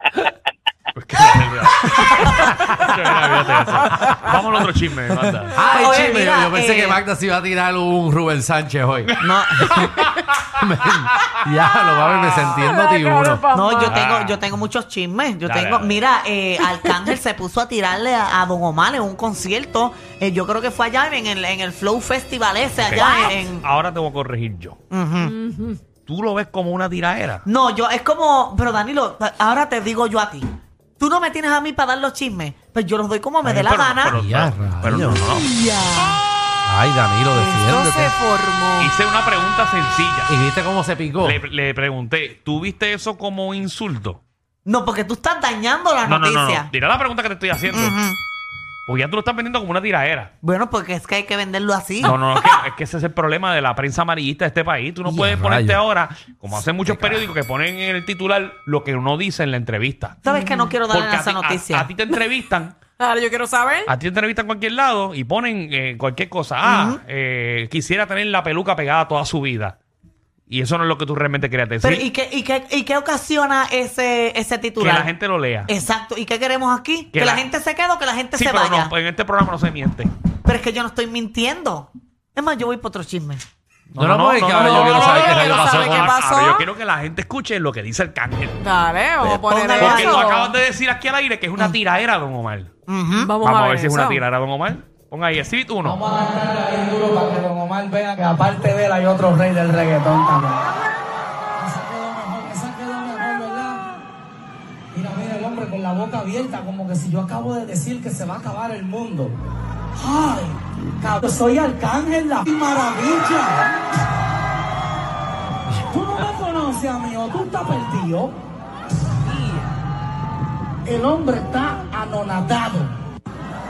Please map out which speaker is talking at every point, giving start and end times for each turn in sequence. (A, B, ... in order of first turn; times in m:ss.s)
0:01.0-0:05.6 A
0:02.3-0:02.9 B
0:03.3-0:04.3 C
0:05.5-0:09.1 B
0:05.6-0:07.0 D
0:09.1-0:10.6 A
0:09.2-0:10.1 D
0:10.6-0:13.4 B
0:12.1-0:14.0 C
0:13.5-0:23.6 D
0:13.8-0:14.4 A
0:15.4-0:16.0 A
0:16.7-0:17.1 C
0:22.8-0:24.8 A
0:24.9-0:25.4 D
0:25.2-0:25.8 C
0:26.1-0:27.4 A
0:27.4-0:30.5 D
0:31.0-0:34.2 D
0:33.4-0:35.5 A
0:34.1-0:35.5 B
0:35.2-0:36.2 D
0:36.6-0:38.1 B
0:37.3-0:38.9 C
0:38.8-0:40.3 A
0:40.3-0:41.4 B
0:41.2-0:44.2 A
0:44.7-0:46.7 D
0:46.0-0:48.0 A
0:47.7-0:48.2 D
0:48.9-0:50.3 A
0:50.4-0:52.2 D
0:52.0-1:00.2 A
0:55.1-0:55.8 B
0:56.8-0:57.2 B
1:00.2-1:01.9 D
1:00.3-1:00.8 C
1:00.9-1:02.8 A
1:03.0-1:03.9 C
1:03.9-1:09.8 A
1:06.6-1:07.0 D
1:10.5-1:12.1 A
1:11.8-1:15.1 D
1:14.8-1:15.7 A
1:15.7-1:18.9 D
1:17.1-1:17.5 A
1:18.3-1:20.1 A
1:20.4-1:23.4 D
1:23.9-1:28.6 A
1:24.0-1:26.2 B
1:24.5-1:26.7 C
1:28.6-1:30.6 C
1:29.2-1:30.3 D
1:29.8-1:32.7 A
1:32.9-1:33.3 D
1:33.2-1:34.2 C
1:33.4-1:36.2 A
1:35.8-1:40.6 E
1:41.6-1:43.8 E
1:44.9-1:49.3 E
1:50.0-1:53.6 E
1:55.8-1:58.3 E
2:00.8-2:02.9 E